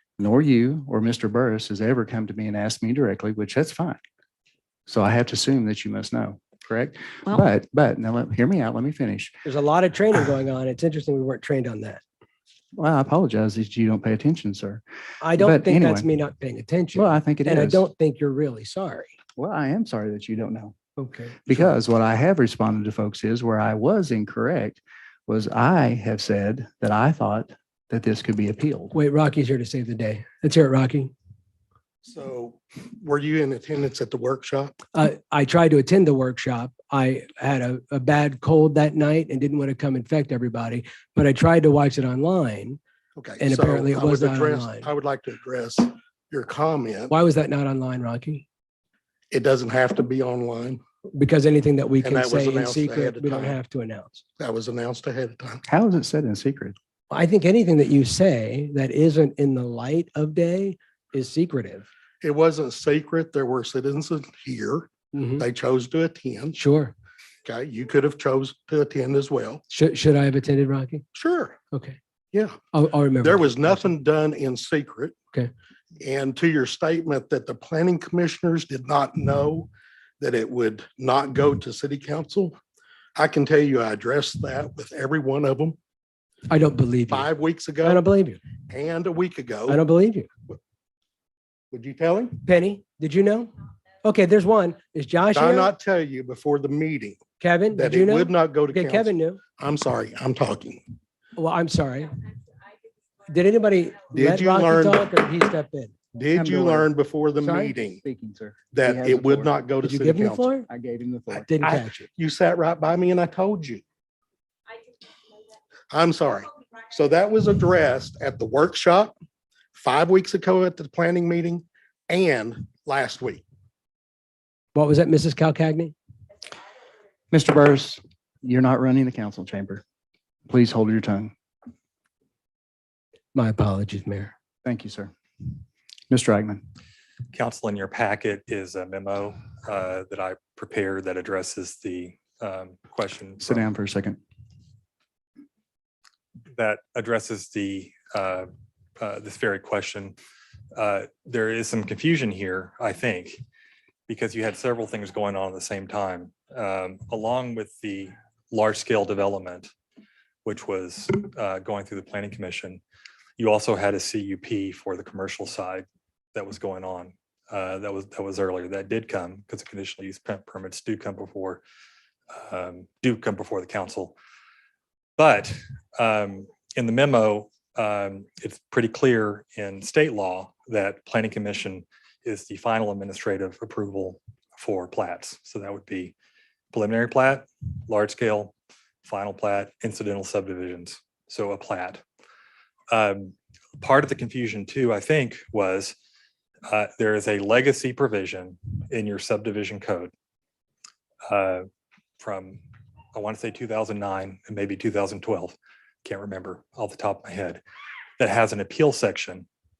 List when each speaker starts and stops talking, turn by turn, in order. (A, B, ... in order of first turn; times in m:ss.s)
0:00.2-0:04.0 A
0:04.9-0:09.4 A
0:09.4-0:12.0 B
0:12.7-0:14.8 A
0:15.2-0:19.2 B
0:15.3-0:16.1 A
0:16.9-0:17.8 A
0:19.4-0:20.7 A
0:21.0-0:21.7 B
0:21.4-0:28.9 A
0:28.9-0:31.1 B
0:32.0-0:34.8 C
0:34.9-0:42.8 B
0:43.2-0:47.1 C
0:43.4-0:44.9 B
0:47.1-0:48.4 B
0:49.3-0:50.8 C
0:51.1-0:54.2 B
0:52.0-0:53.6 C
0:54.4-0:55.6 C
0:55.6-0:56.8 A
0:57.1-1:01.8 B
1:02.2-1:06.6 C
1:05.1-1:05.5 B
1:06.5-1:06.9 B
1:07.4-1:09.6 C
1:09.7-1:11.0 B
1:11.1-1:11.6 C
1:11.7-1:12.0 B
1:12.3-1:12.6 C
1:12.7-1:13.9 B
1:13.2-1:15.2 C
1:16.0-1:19.7 C
1:20.2-1:22.6 C
1:23.2-1:25.8 C
1:26.5-1:27.3 B
1:27.1-1:28.0 C
1:27.8-1:28.4 B
1:28.6-1:29.8 C
1:29.7-1:30.3 B
1:31.7-1:32.4 C
1:32.4-1:35.7 B
1:35.3-1:40.8 C
1:37.4-1:39.4 B
1:41.4-1:42.2 B
1:43.2-1:46.0 B
1:44.1-1:45.1 C
1:46.1-1:48.0 C
1:46.3-1:46.9 A
1:47.4-1:47.7 B
1:47.9-1:49.5 A
1:48.7-1:50.5 C
1:49.8-1:50.7 B
1:50.7-1:51.5 A
1:51.4-1:52.1 B
1:51.6-1:53.8 C
1:55.9-1:59.1 C
1:59.7-2:03.4 C
2:04.7-2:05.9 B
2:07.3-2:09.8 A
2:10.5-2:11.3 A
2:13.3-2:14.3 B
2:14.6-2:15.1 A
2:16.1-2:16.6 A
2:17.3-2:23.6 D
2:23.4-2:24.2 A
2:26.5-2:28.5 D
2:29.0-2:30.2 D
2:30.7-2:33.4 D
2:34.1-2:39.7 D
2:40.4-2:42.8 D
2:43.4-2:51.6 D
2:52.3-2:54.2 D
2:55.2-3:06.1 D
3:06.7-3:12.0 D
3:12.9-3:16.0 D
3:16.7-3:20.1 D
3:21.3-3:21.6 D
3:22.2-3:22.6 D
3:23.1-3:27.6 D
3:28.2-3:29.5 D